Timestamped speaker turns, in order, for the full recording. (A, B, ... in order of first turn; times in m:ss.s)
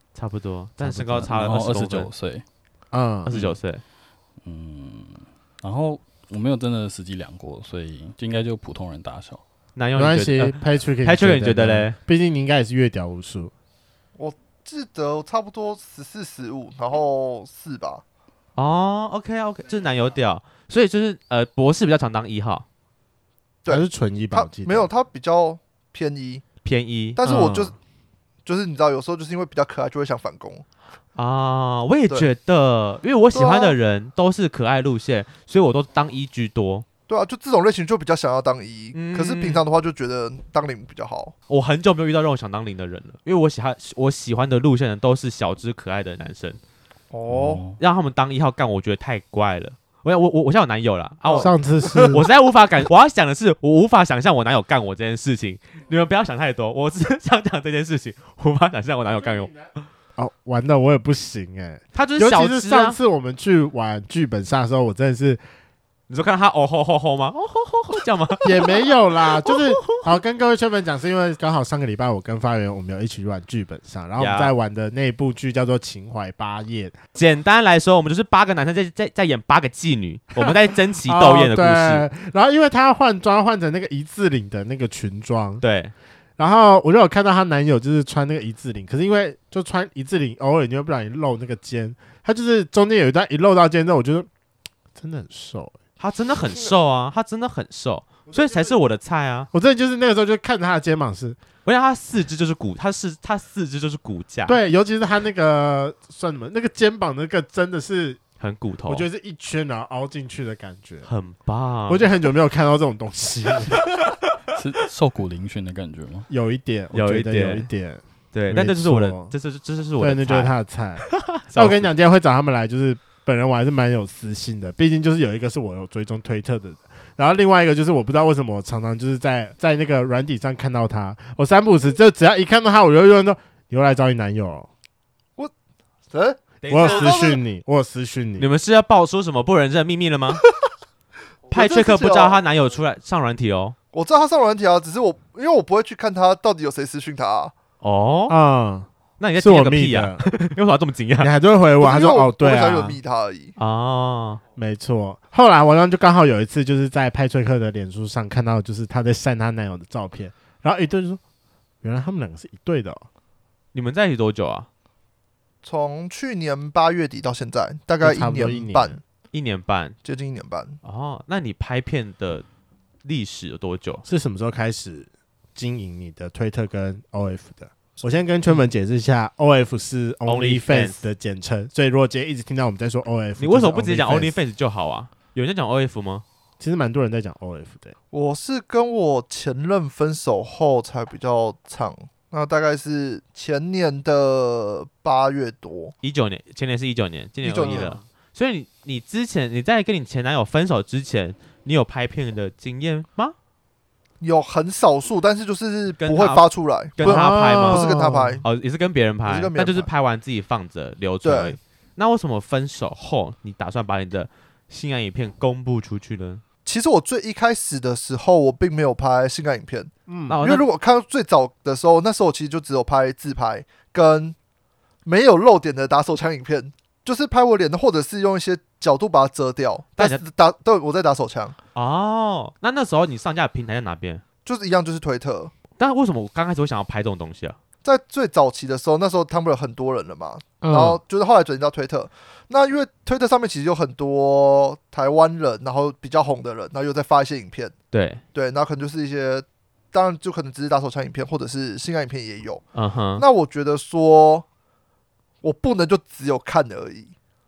0:00.1-0:02.1 A
0:00.8-0:01.2 B
0:01.0-0:02.4 C
0:02.9-0:03.3 B
0:03.2-0:03.8 A
0:04.4-0:09.4 C
0:09.8-0:12.0 A
0:09.9-0:13.5 B
0:14.2-0:18.0 D
0:18.6-0:22.6 A
0:23.6-0:26.4 D
0:23.7-0:24.9 B
0:26.6-0:27.2 A
0:27.2-0:27.7 D
0:27.2-0:27.7 B
0:28.4-0:30.6 D
0:31.2-0:36.8 A
0:33.3-0:33.8 D
0:37.1-0:41.3 D
0:38.9-0:39.6 A
0:41.5-0:46.6 A
0:47.1-0:47.6 D
0:47.3-0:47.8 C
0:47.8-0:51.6 A
0:51.2-0:52.2 D
0:51.4-0:52.2 B
0:52.1-0:59.9 A
1:00.2-1:05.4 B
1:01.9-1:03.0 A
1:06.1-1:08.8 A
1:08.4-1:17.0 B
1:09.4-1:10.0 A
1:14.2-1:14.5 A
1:17.1-1:22.1 A
1:21.0-1:25.6 B
1:25.6-1:25.9 A
1:26.4-1:34.3 B
1:35.0-1:35.7 B
1:36.0-1:39.5 A
1:38.3-1:38.8 B
1:39.5-1:41.4 B
1:41.6-1:44.6 A
1:44.5-1:48.2 B
1:48.4-1:49.1 A
1:48.9-1:51.1 B
1:51.0-1:52.1 A
1:51.9-1:54.0 B
1:54.5-1:56.3 C
1:56.3-1:59.3 B
1:56.9-1:57.7 A
1:58.3-2:00.5 A
2:00.0-2:14.7 B
2:01.2-2:01.9 A
2:16.1-2:17.4 D
2:16.6-2:17.2 A
2:16.7-2:18.5 B
2:18.4-2:20.4 A
2:21.5-2:22.4 D
2:21.5-2:23.8 A
2:23.9-2:27.5 D
2:27.8-2:28.4 A
2:28.3-2:28.9 B
2:29.2-2:31.3 A
2:29.4-2:30.2 B
2:31.2-2:33.0 B
2:31.8-2:33.5 D
2:33.6-2:34.4 A
2:34.6-2:41.2 B
2:41.8-2:43.0 B
2:43.7-2:44.7 A
2:45.6-2:49.0 D
2:48.0-2:49.0 B
2:49.3-2:50.0 A
2:50.0-2:50.8 D
2:50.8-2:52.4 A
2:53.0-2:54.0 A
2:54.0-3:04.4 B
3:00.2-3:01.0 A
3:03.4-3:06.2 A
3:06.6-3:07.9 B
3:08.1-3:15.9 D
3:16.0-3:23.3 A
3:17.4-3:18.0 D
3:17.6-3:17.9 B
3:24.2-3:28.4 D
3:26.0-3:26.4 A
3:26.9-3:27.8 A
3:27.0-3:28.4 B
3:28.4-3:36.4 A
3:29.2-3:29.9 D
3:31.2-3:31.6 D
3:36.6-3:44.4 D
3:40.1-3:40.4 B
3:40.3-3:40.6 A
3:45.0-3:51.6 D
3:50.0-3:50.2 A
3:51.7-3:54.2 A
3:54.4-3:55.5 D
3:55.8-3:57.6 A
3:57.8-4:07.7 D
4:00.6-4:01.0 B
4:07.9-4:08.2 A
4:08.3-4:12.6 D
4:12.7-4:13.2 A
4:13.2-4:14.4 D
4:15.4-4:17.1 D